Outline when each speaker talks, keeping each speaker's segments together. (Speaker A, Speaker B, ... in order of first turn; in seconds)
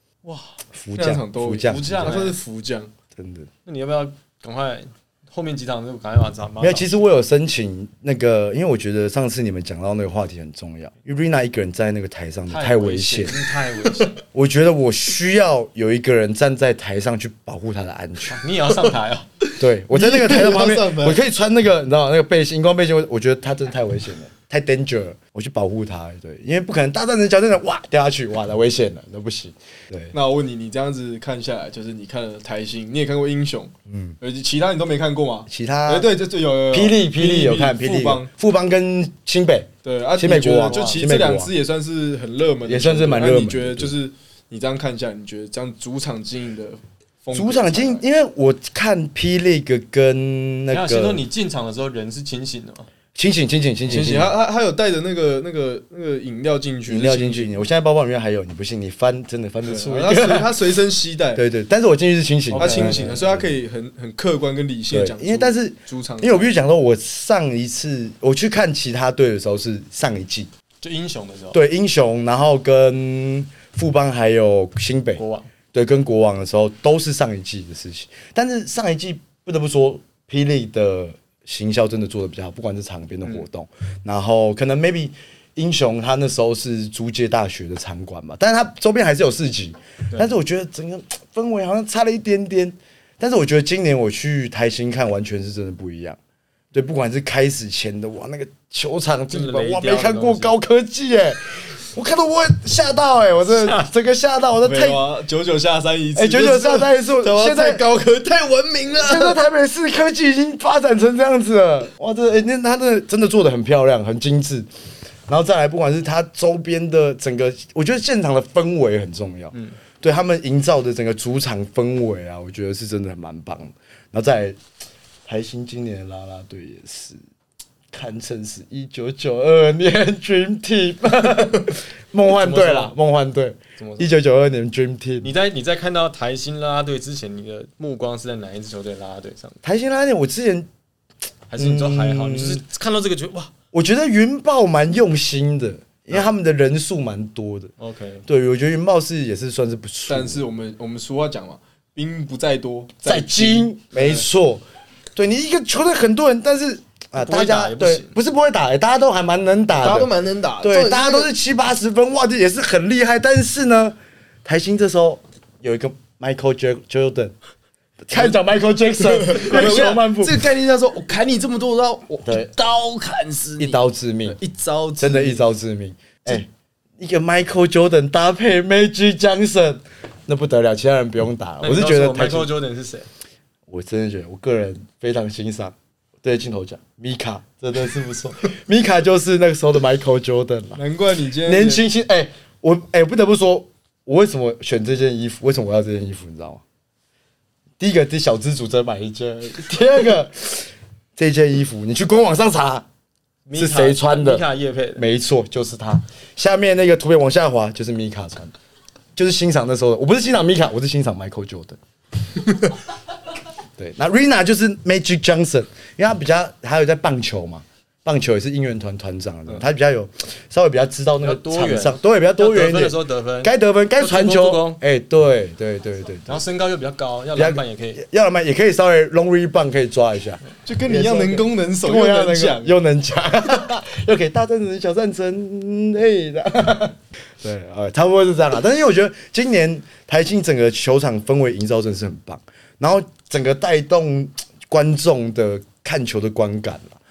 Speaker A: 0.2-0.6, 1.6-2.4, 3.6-6.9, 12.5-14.2, 18.3-19.3, 40.6-41.1, 50.7-52.9, 62.5-63.1, 70.8-71.6, 75.2-75.5, 99.3-100.5, 103.5-103.9, 132.3-132.9, 133.8-134.1, 135.2-139.6, 141.5-143.5, 147.8-148.2, 157.2-158.2, 181.6-183.1, 203.4-205.0, 221.2-224.8, 226.2-228.0
Speaker B: 0.7-2.2, 3.1-3.5, 6.6-13.4, 14.3-18.4, 19.6-30.1, 33.9-34.2, 35.5-36.1, 36.7-41.5, 42.6-43.9, 47.3-51.2, 53.1-54.3, 56.9-60.6, 61.3-63.5, 64.9-70.5, 71.5-75.2, 75.7-96.2, 96.7-105.0, 106.2-107.8, 109.0-114.7, 115.3-124.6, 125.2-127.2, 127.9-135.3, 139.6-140.7, 141.6-142.6, 143.7-147.7, 148.3-150.4, 153.0-154.6, 155.2-160.1, 160.6-167.3, 168.1-170.4, 172.2-172.5, 173.6-174.4, 175.0-176.5, 177.0-182.5, 183.7-190.8, 191.4-196.6, 197.8-202.8, 203.5-204.4, 204.9-208.5, 209.2-211.8, 213.8-226.4, 227.3-247.0
Speaker C: 1.0-2.9, 19.4-21.2, 30.1-38.3, 39.8-48.0, 53.9-57.6, 59.6-61.4, 62.5-66.5, 104.6-109.4, 150.1-154.2, 159.8-161.3, 169.0-175.4, 190.8-191.8, 230.7-232.8